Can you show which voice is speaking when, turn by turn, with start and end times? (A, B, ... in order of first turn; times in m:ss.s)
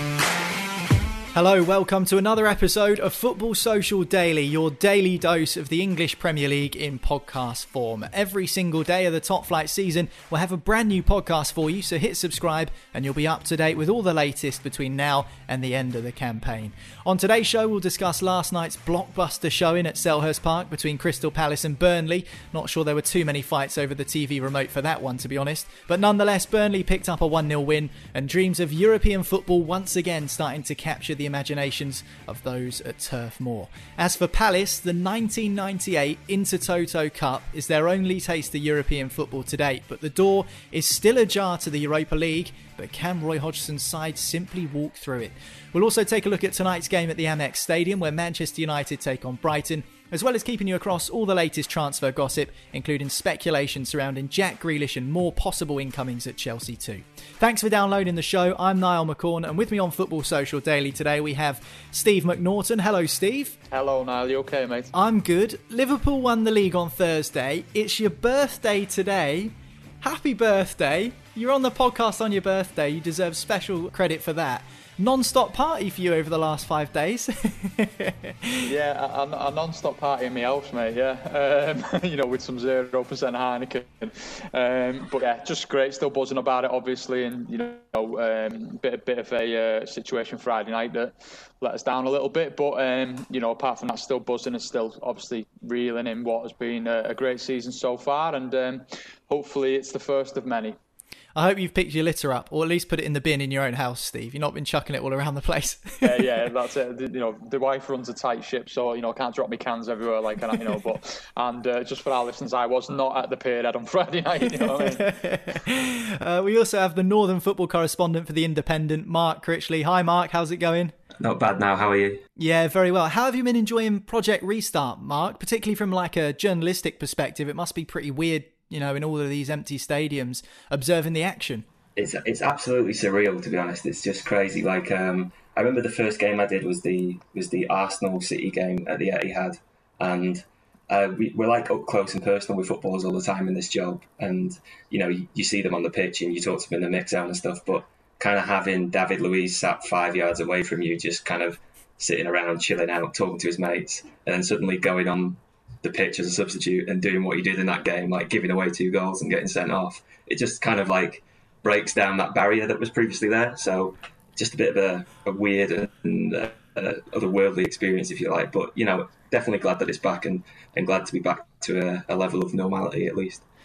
0:01.3-1:03.6 A
1:03.7-1:04.9 B
1:04.9-1:18.6 A
1:18.6-1:40.8 B
1:41.4-1:46.2 A
1:46.0-1:55.1 B
1:54.5-2:00.9 A
2:01.2-2:02.2 C
2:02.4-2:11.6 A
2:12.0-2:53.4 C